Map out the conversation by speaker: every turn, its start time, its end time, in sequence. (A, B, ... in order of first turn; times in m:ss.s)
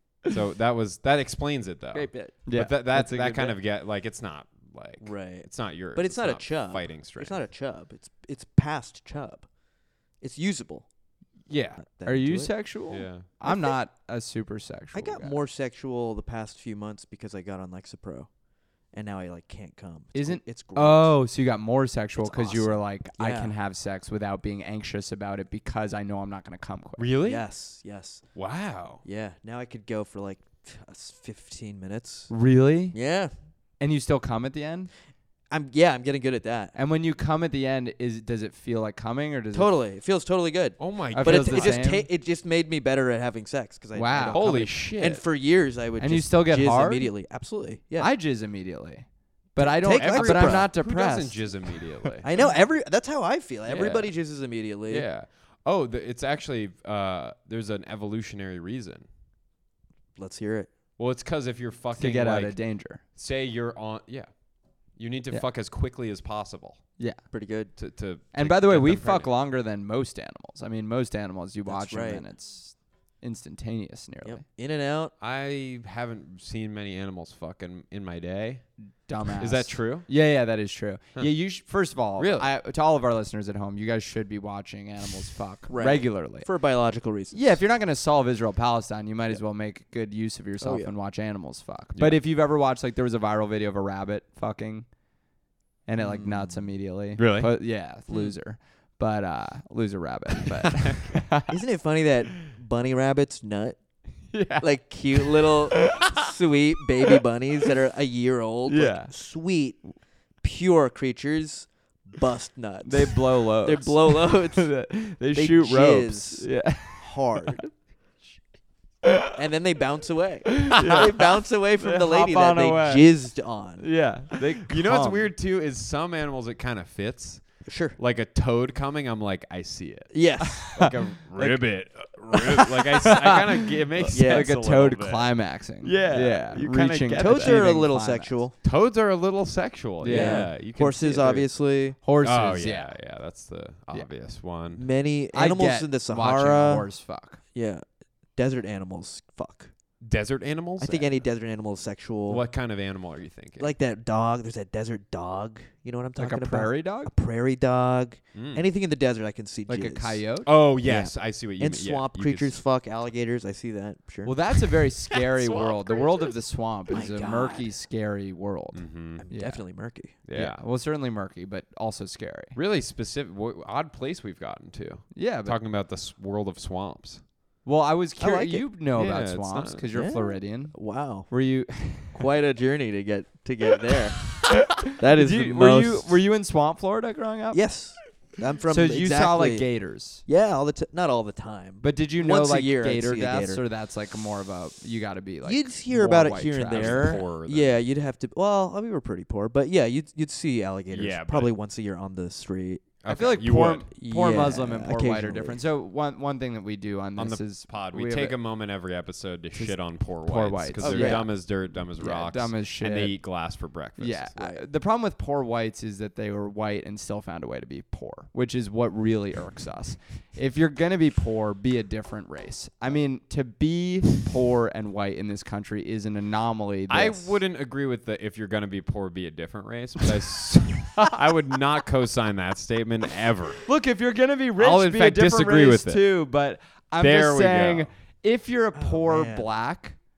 0:00.3-0:07.4 A
0:01.9-0:02.4 B
0:02.4-0:03.6 C
0:05.0-0:09.5 B
0:10.2-0:10.9 B
0:11.5-0:11.8 A
0:11.8-0:12.6 B
0:12.0-0:15.4 C
0:12.9-0:13.3 A
0:13.4-0:13.7 B
0:14.9-0:18.3 B
0:18.9-0:21.2 B
0:20.1-0:27.1 C
0:22.2-0:23.5 B
0:27.0-0:27.4 A
0:27.2-0:28.2 B
0:28.4-0:29.0 A
0:29.0-0:32.3 B
0:32.3-0:33.0 C
0:32.9-0:33.3 B
0:33.8-0:34.9 C
0:35.5-0:36.7 B
0:36.7-0:39.7 C
0:39.5-0:48.1 B
0:40.8-0:41.8 A
0:41.1-0:42.1 C
0:43.9-0:44.7 C
0:44.3-0:45.2 A
0:46.0-0:47.1 C
0:48.0-0:51.8 C
0:49.6-0:50.7 B
0:49.9-0:52.3 A
0:52.2-0:55.1 B
0:53.7-0:54.1 A
0:54.9-0:59.0 A
1:00.2-1:00.7 B
1:01.0-1:04.3 A
1:01.9-1:03.0 C
1:05.0-1:06.8 A
1:07.3-1:07.7 B
1:07.8-1:09.3 A
1:08.3-1:14.4 C
1:11.7-1:12.2 B
1:14.2-1:15.1 B
1:15.2-1:18.7 A
1:19.0-1:26.5 C
1:19.4-1:20.1 A
1:22.2-1:22.5 A
1:25.7-1:27.6 B
1:27.3-1:34.9 C
1:30.6-1:30.9 B
1:31.9-1:32.2 A
1:35.8-1:41.5 C
1:36.0-1:36.7 B
1:37.2-1:38.3 A
1:40.6-1:41.2 A
1:41.5-1:43.8 B
1:44.3-1:46.3 C
1:44.6-1:49.8 B
1:48.7-1:49.1 C
1:50.4-1:54.7 B
1:52.8-1:57.2 C
1:55.3-1:57.7 B
1:59.0-1:59.3 C
1:59.3-2:03.9 B
2:00.5-2:03.1 C
2:03.8-2:05.3 C
2:04.7-2:17.7 A
2:07.6-2:08.0 B
2:10.1-2:11.6 B
2:10.4-2:10.9 C
2:12.9-2:18.4 C
2:14.1-2:14.6 B
2:17.1-2:18.5 B
2:18.6-2:21.5 A
2:20.0-2:20.5 C
2:20.1-2:22.0 B
2:22.0-2:22.9 C
2:22.2-2:24.8 A
2:24.7-2:26.9 B
2:25.3-2:27.4 C
2:27.5-2:27.8 B
2:28.4-2:29.7 B
2:30.0-2:31.2 A
2:30.8-2:32.4 B
2:32.3-2:33.7 A
2:33.6-2:40.2 B
2:36.2-2:37.1 C
2:38.3-2:38.6 A
2:39.7-2:40.5 C
2:40.4-2:42.6 A
2:40.8-2:44.5 B
2:44.2-2:49.6 C
2:45.2-2:46.3 A
2:46.9-2:47.7 B
2:48.7-2:49.2 A
2:49.2-2:50.2 B
2:50.2-2:50.6 A
2:50.3-2:52.6 C
2:52.5-2:57.2 A
2:55.1-2:55.6 C
2:57.6-3:02.2 C
2:58.2-2:58.7 B
2:58.9-2:59.9 A
2:59.9-3:06.2 B
3:04.5-3:07.6 C
3:07.5-3:13.6 B
3:08.7-3:10.2 C
3:11.8-3:17.2 C
3:15.4-3:22.9 B
3:16.7-3:17.8 A
3:20.9-3:21.5 A
3:23.0-3:23.9 A
3:23.1-3:28.4 C
3:24.0-3:25.6 B
3:27.2-3:34.6 A
3:29.5-3:33.2 C
3:30.8-3:31.2 B
3:34.0-3:47.4 C
3:46.9-3:53.6 A
3:53.6-4:00.0 C
3:54.6-3:56.0 A
3:57.0-3:57.9 A
3:58.8-3:59.5 B